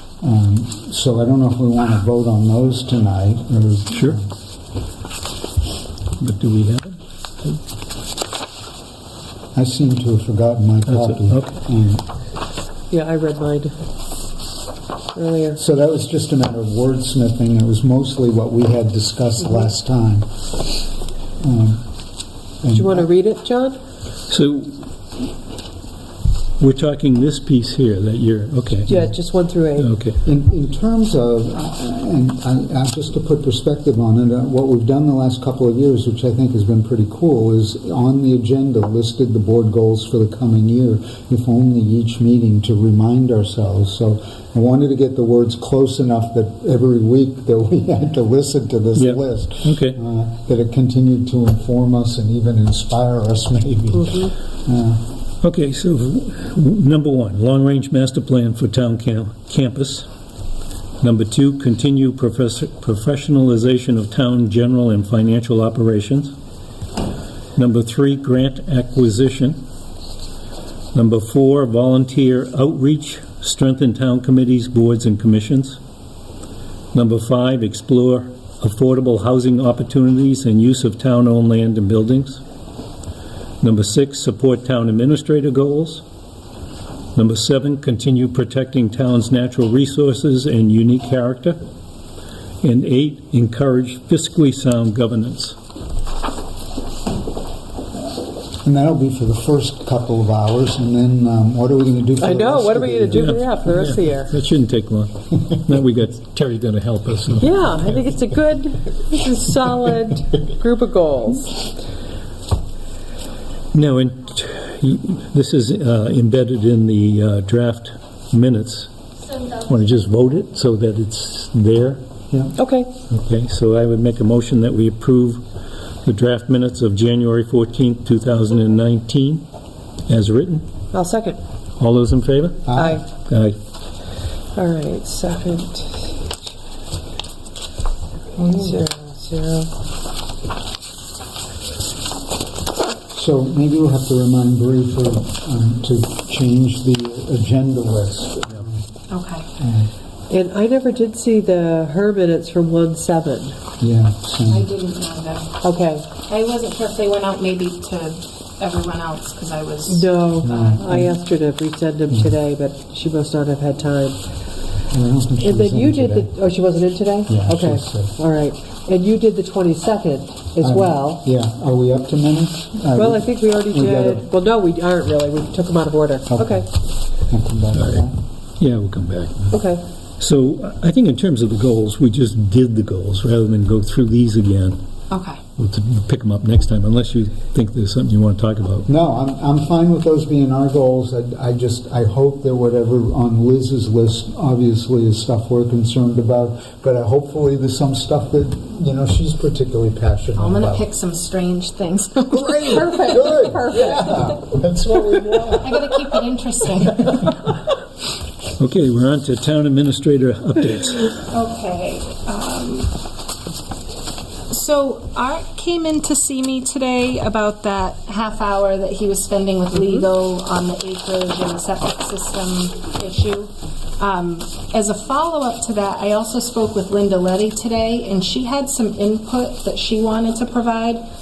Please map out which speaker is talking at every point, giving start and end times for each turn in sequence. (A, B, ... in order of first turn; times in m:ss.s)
0:00.2-0:04.3 A
0:03.9-0:04.2 B
0:06.2-0:07.0 B
0:09.5-0:12.0 A
0:10.9-0:11.6 B
0:12.9-0:13.9 C
0:15.1-0:15.6 C
0:15.6-0:20.8 A
0:21.4-0:21.8 A
0:22.6-0:23.1 A
0:22.7-0:23.8 C
0:24.3-0:24.8 B
0:26.6-0:29.1 B
0:28.8-0:29.9 C
0:29.8-0:30.2 B
0:30.2-0:55.0 A
0:48.9-0:50.0 B
0:55.4-1:00.1 B
1:01.0-1:06.3 B
1:07.5-1:09.6 B
1:10.9-1:15.8 B
1:16.9-1:22.4 B
1:23.6-1:26.0 B
1:27.1-1:31.6 B
1:32.6-1:35.6 B
1:38.6-1:43.3 A
1:42.2-1:44.3 C
1:43.1-1:47.6 B
1:47.4-1:51.5 C
1:53.7-2:02.0 B
2:02.6-2:02.9 C
2:03.1-2:05.4 B
2:06.0-2:09.4 B
2:10.1-2:10.7 B
2:10.9-2:11.4 C
2:11.8-2:13.6 B
2:12.7-2:13.0 A
2:12.7-2:13.0 C
2:14.5-2:16.2 C
2:18.4-2:19.7 C
2:23.1-2:28.8 A
2:29.1-2:29.4 D
2:29.6-2:29.9 A
2:30.3-2:33.6 C
2:33.8-2:34.7 A
2:34.4-2:35.6 D
2:35.6-2:36.1 C
2:36.2-2:40.9 D
2:39.9-2:44.2 C
2:40.4-2:41.1 A
2:44.9-2:46.4 A
2:45.4-2:51.2 C
2:47.3-2:48.1 A
2:50.6-2:54.2 A
2:52.9-2:56.7 C
2:56.3-2:58.2 A
2:57.8-2:58.0 B
2:58.6-2:59.5 B
2:59.5-2:59.8 C
3:00.2-3:04.8 B
3:05.1-3:05.4 D
3:05.6-3:08.9 B
3:08.9-3:20.8 A
3:20.4-3:22.9 D
3:22.3-3:26.0 A
3:22.7-3:24.3 C
3:25.6-3:27.2 D
3:28.6-3:31.1 B
3:31.3-3:32.9 D
3:34.5-3:51.0 D